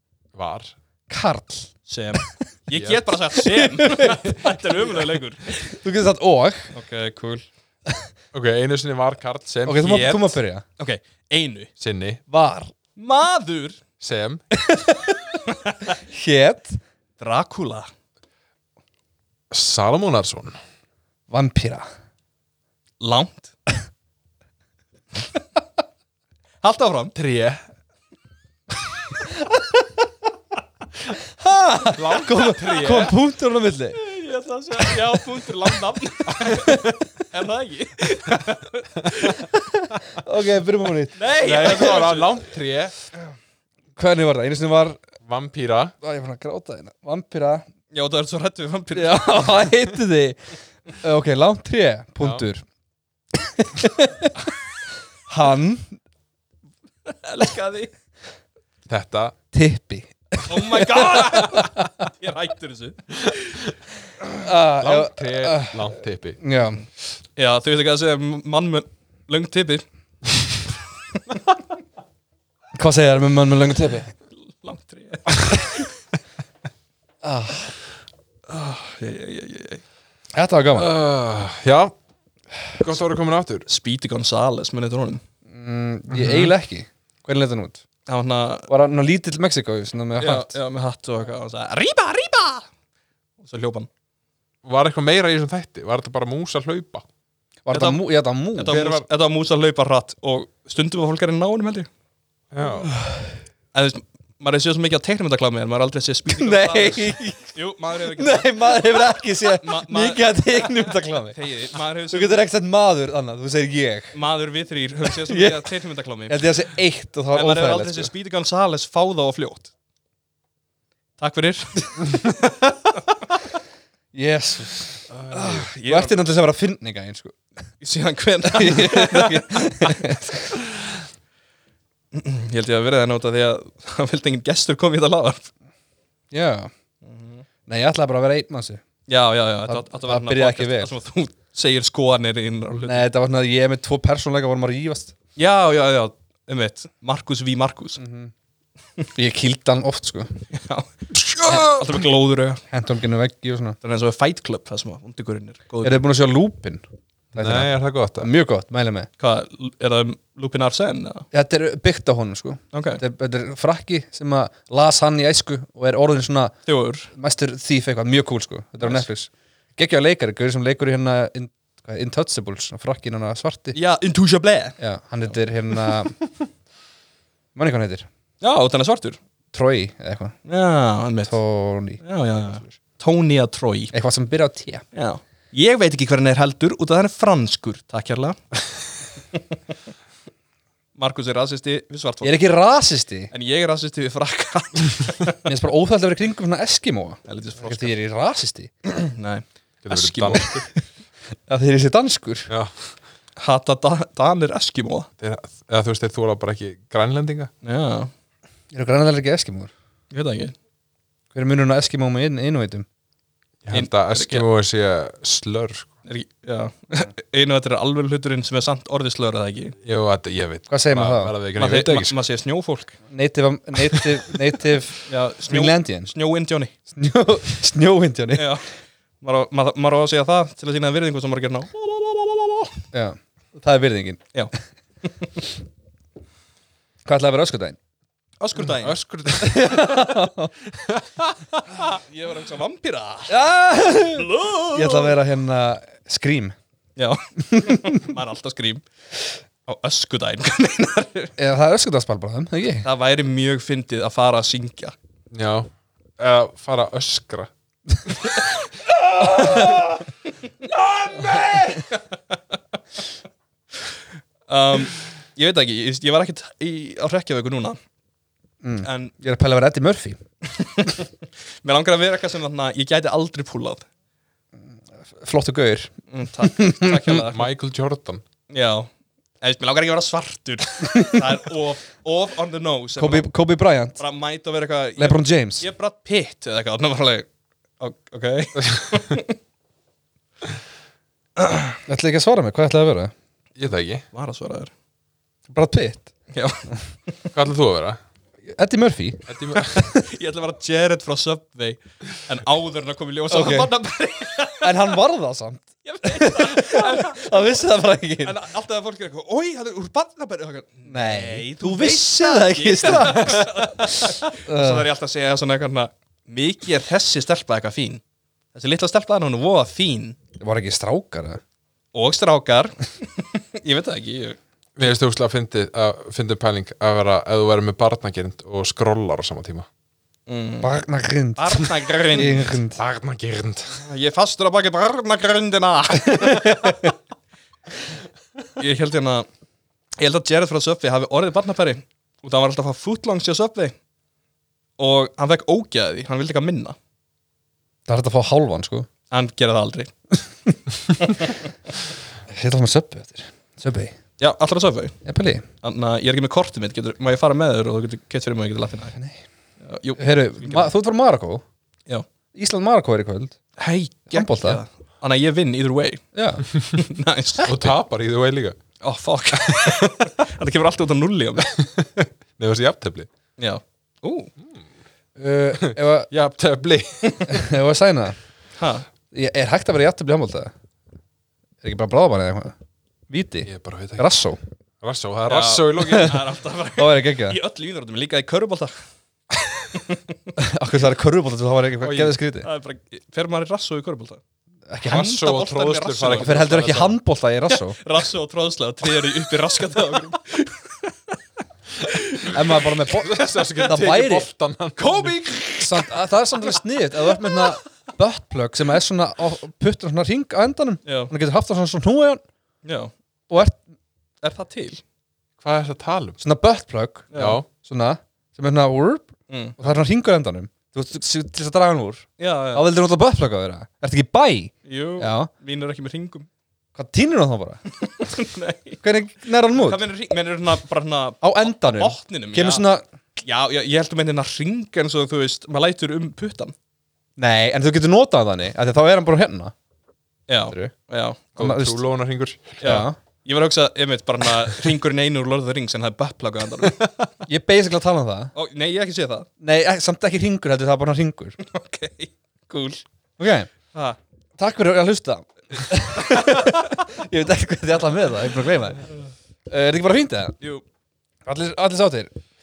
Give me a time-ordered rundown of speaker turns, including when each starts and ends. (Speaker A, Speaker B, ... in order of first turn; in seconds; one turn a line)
Speaker A: 0.3-0.7
Speaker B: 1.1-2.3
Speaker C: 1.9-5.8
Speaker A: 2.7-3.1
Speaker B: 3.3-5.0
Speaker B: 5.6-6.7
Speaker C: 6.7-7.5
Speaker A: 8.3-10.4
Speaker B: 9.7-10.6
Speaker C: 10.8-11.7
Speaker A: 11.8-12.2
Speaker B: 12.3-12.7
Speaker C: 13.0-13.8
Speaker A: 14.0-14.4
Speaker B: 14.5-15.4
Speaker C: 15.5-15.9
Speaker B: 16.0-16.8
Speaker C: 17.2-17.9
Speaker A: 19.5-20.6
Speaker B: 21.3-21.9
Speaker C: 23.0-23.5
Speaker C: 26.6-27.1
Speaker A: 27.1-27.6
Speaker B: 31.4-34.0
Speaker A: 31.9-33.1
Speaker C: 33.9-39.5
Speaker B: 36.6-36.9
Speaker B: 39.5-41.2
Speaker C: 41.2-42.4
Speaker A: 41.4-42.9
Speaker B: 44.0-45.0
Speaker A: 45.2-46.0
Speaker B: 46.0-47.6
Speaker C: 47.9-49.6
Speaker B: 48.9-52.6
Speaker B: 53.3-54.4
Speaker B: 55.3-56.0
Speaker C: 57.1-57.9
Speaker A: 58.9-59.4
Speaker B: 59.5-61.8
Speaker C: 60.5-63.6
Speaker A: 63.3-63.7
Speaker B: 64.3-66.8
Speaker A: 64.8-66.4
Speaker C: 67.4-69.8
Speaker B: 72.7-74.1
Speaker C: 74.4-75.4
Speaker B: 77.2-77.7
Speaker C: 78.5-79.8
Speaker B: 80.3-80.9
Speaker A: 80.7-81.9
Speaker A: 82.8-83.7
Speaker C: 83.7-85.2
Speaker B: 85.5-87.8
Speaker A: 86.1-86.5
Speaker C: 88.1-88.7
Speaker B: 88.7-90.6
Speaker C: 90.2-92.7
Speaker C: 93.4-93.9
Speaker A: 94.6-97.1
Speaker B: 97.7-98.8
Speaker C: 97.7-101.9
Speaker A: 98.7-99.0
Speaker A: 102.5-102.9
Speaker C: 103.7-112.5
Speaker B: 106.4-107.5
Speaker B: 108.2-111.4
Speaker B: 112.1-114.2
Speaker C: 114.1-116.4
Speaker B: 115.2-115.6
Speaker B: 116.3-118.1
Speaker C: 117.3-119.7
Speaker C: 121.2-122.0
Speaker B: 124.1-125.1
Speaker C: 125.3-126.2
Speaker B: 125.8-127.3
Speaker C: 127.8-130.0
Speaker B: 128.5-130.6
Speaker C: 132.1-135.5
Speaker B: 136.3-136.7
Speaker C: 137.0-137.4
Speaker B: 137.7-138.8
Speaker C: 139.1-143.1
Speaker B: 139.7-140.9
Speaker B: 142.8-145.1
Speaker C: 145.4-148.0
Speaker B: 148.0-148.3
Speaker B: 149.2-150.4
Speaker C: 150.5-152.6
Speaker B: 151.4-151.9
Speaker B: 152.7-153.8
Speaker C: 153.8-156.0
Speaker B: 155.8-156.8
Speaker B: 157.3-159.1
Speaker A: 157.4-158.3
Speaker C: 159.2-161.2
Speaker B: 161.3-166.6
Speaker C: 162.7-163.0
Speaker C: 166.7-167.1
Speaker B: 167.1-173.8
Speaker C: 173.7-174.8
Speaker B: 174.8-176.2
Speaker B: 177.6-178.1
Speaker C: 178.4-179.2
Speaker B: 179.5-180.4
Speaker C: 180.5-181.4
Speaker B: 181.3-182.0
Speaker C: 182.0-183.9
Speaker B: 183.9-184.8
Speaker C: 184.9-188.4
Speaker C: 191.0-192.4
Speaker B: 192.2-193.3
Speaker C: 193.3-195.4
Speaker B: 195.4-198.7
Speaker C: 197.3-197.9
Speaker C: 198.9-200.7
Speaker A: 199.8-200.7
Speaker B: 201.5-202.5
Speaker A: 202.5-202.8
Speaker C: 203.4-205.1
Speaker A: 205.2-207.5
Speaker C: 207.6-208.1
Speaker B: 208.7-209.7
Speaker C: 210.1-210.5
Speaker B: 211.3-212.9
Speaker A: 213.6-215.9
Speaker C: 213.7-214.4
Speaker C: 216.1-219.8
Speaker A: 219.8-222.2
Speaker B: 220.7-221.3
Speaker C: 221.6-223.0
Speaker B: 223.1-226.1
Speaker C: 225.1-226.7
Speaker B: 226.9-228.6
Speaker C: 228.3-228.7
Speaker C: 229.2-232.8
Speaker B: 232.9-234.2
Speaker B: 237.1-237.8
Speaker C: 238.4-239.3
Speaker A: 238.6-240.1
Speaker B: 239.4-240.5
Speaker A: 240.7-242.0
Speaker C: 241.9-243.3
Speaker B: 243.3-246.6
Speaker C: 244.2-245.2
Speaker C: 247.0-248.8
Speaker B: 247.5-248.1
Speaker C: 249.7-251.3
Speaker B: 251.4-252.9
Speaker C: 252.8-254.9
Speaker A: 255.3-257.5
Speaker C: 259.4-259.6
Speaker C: 260.9-262.6
Speaker A: 261.2-261.4
Speaker C: 264.5-267.8
Speaker B: 268.6-270.2
Speaker C: 268.8-269.1
Speaker C: 270.4-271.1
Speaker C: 271.6-273.9
Speaker B: 275.1-277.2
Speaker C: 276.1-277.5
Speaker A: 277.3-278.2
Speaker C: 278.5-278.9
Speaker C: 279.4-283.3
Speaker B: 281.0-281.2
Speaker B: 283.0-284.0
Speaker C: 284.0-287.3
Speaker B: 285.0-285.7
Speaker C: 287.8-289.4
Speaker C: 291.4-291.8
Speaker B: 291.9-293.1
Speaker A: 293.6-294.0
Speaker C: 294.1-294.7
Speaker B: 295.5-296.1
Speaker C: 296.3-296.7
Speaker A: 297.3-298.0
Speaker B: 298.5-300.1
Speaker A: 299.3-299.9
Speaker C: 300.0-304.9
Speaker B: 303.3-303.7
Speaker B: 304.6-308.4
Speaker C: 305.8-307.6
Speaker C: 308.2-318.0
Speaker B: 310.9-314.9
Speaker C: 318.6-320.2
Speaker B: 320.4-321.4
Speaker C: 321.9-324.4
Speaker A: 324.8-329.7
Speaker C: 330.3-330.7
Speaker B: 330.6-332.8
Speaker C: 331.4-332.5
Speaker A: 332.8-333.9
Speaker C: 333.8-336.8
Speaker B: 336.2-336.8
Speaker C: 338.6-339.3
Speaker C: 340.0-343.7
Speaker C: 344.8-346.8
Speaker B: 347.9-348.9
Speaker C: 349.1-349.9
Speaker C: 351.0-351.3
Speaker B: 352.3-353.9
Speaker C: 354.2-355.0
Speaker B: 355.1-355.4
Speaker C: 355.6-358.9
Speaker C: 359.6-360.7
Speaker B: 360.0-361.4
Speaker B: 362.3-363.4
Speaker C: 363.6-366.0
Speaker B: 364.1-364.6
Speaker B: 366.1-366.5
Speaker C: 366.7-367.7
Speaker A: 367.4-368.6
Speaker C: 368.8-371.6
Speaker A: 369.4-369.9
Speaker A: 371.6-373.1
Speaker C: 373.4-374.3
Speaker B: 375.2-376.1
Speaker A: 375.6-377.4
Speaker B: 377.3-378.2
Speaker C: 378.6-378.9
Speaker B: 379.1-380.5
Speaker B: 381.6-382.5
Speaker B: 383.1-384.4
Speaker A: 383.5-384.1
Speaker A: 384.8-386.2
Speaker C: 385.3-388.7
Speaker B: 386.8-387.4
Speaker C: 389.7-390.2
Speaker B: 390.4-392.5
Speaker C: 391.9-394.2
Speaker B: 394.7-395.2
Speaker C: 394.9-396.9
Speaker A: 394.9-396.8
Speaker B: 396.2-397.8
Speaker C: 397.5-401.2
Speaker C: 401.8-402.6
Speaker B: 402.2-404.3
Speaker A: 402.9-405.2
Speaker C: 404.8-405.9
Speaker B: 405.6-412.2
Speaker C: 410.9-411.1
Speaker C: 412.6-412.9
Speaker B: 413.3-413.6
Speaker C: 414.2-414.8
Speaker A: 415.4-416.2
Speaker B: 416.2-425.3
Speaker C: 417.1-417.4
Speaker A: 417.2-417.5
Speaker C: 419.3-419.6
Speaker C: 422.2-422.6
Speaker C: 424.7-426.3
Speaker B: 426.8-427.6
Speaker C: 427.8-428.8
Speaker B: 428.8-429.9
Speaker C: 429.5-432.6
Speaker B: 431.2-432.8
Speaker C: 433.2-436.6
Speaker B: 437.2-439.5
Speaker C: 440.3-441.3
Speaker B: 441.4-441.8
Speaker A: 441.4-442.7
Speaker B: 442.6-442.9
Speaker C: 442.6-446.8
Speaker A: 446.6-447.1
Speaker B: 447.3-448.3
Speaker C: 448.3-449.3
Speaker B: 449.4-451.4
Speaker C: 451.4-452.8
Speaker B: 453.2-453.5
Speaker C: 453.7-454.0
Speaker B: 454.4-458.8
Speaker B: 459.5-460.4
Speaker B: 461.3-462.1